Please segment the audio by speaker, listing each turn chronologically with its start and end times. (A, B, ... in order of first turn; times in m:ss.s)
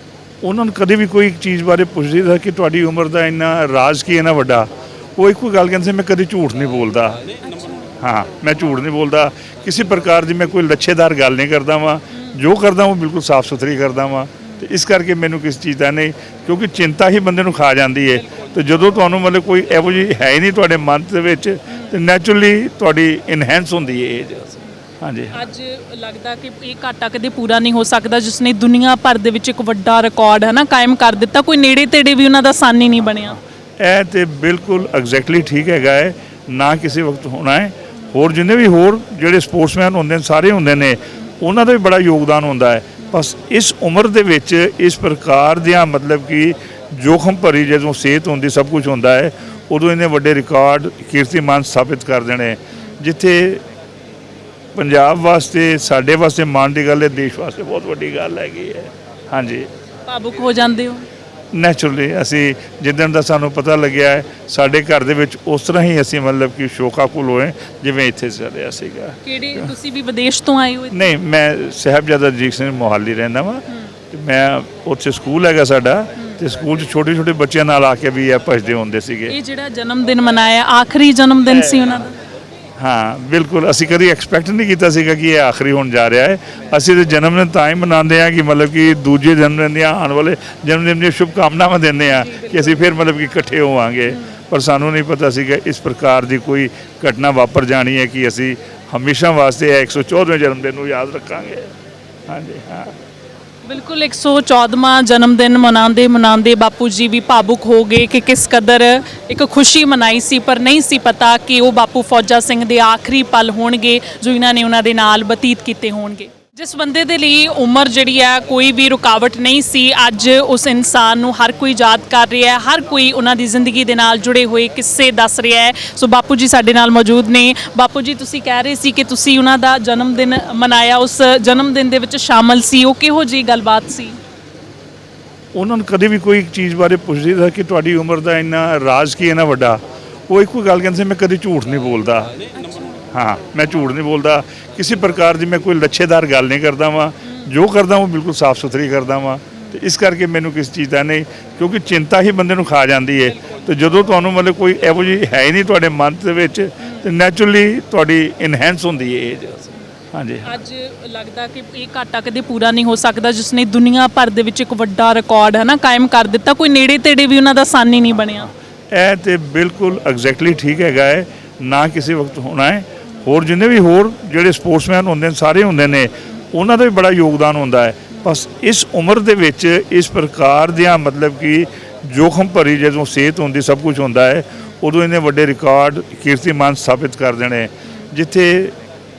0:00.4-0:07.2 A
0:07.4-0:07.9 B
0:08.0-0:25.4 A
0:18.2-0:18.5 B
0:25.3-0:33.4 B
0:33.8-0:53.6 A
0:54.8-0:59.7 A
1:00.1-1:01.0 B
1:01.5-1:09.7 A
1:09.2-1:11.1 B
1:10.9-1:19.4 A
1:19.3-1:22.2 B
1:22.8-1:41.7 A
1:32.1-1:32.8 B
1:34.1-1:34.4 B
1:42.3-1:43.0 A
1:43.6-2:14.2 B
2:15.6-2:22.4 A
2:22.6-2:23.0 B
2:23.1-2:40.6 A
2:33.3-2:33.7 B
2:40.4-2:48.5 B
2:48.9-3:08.8 A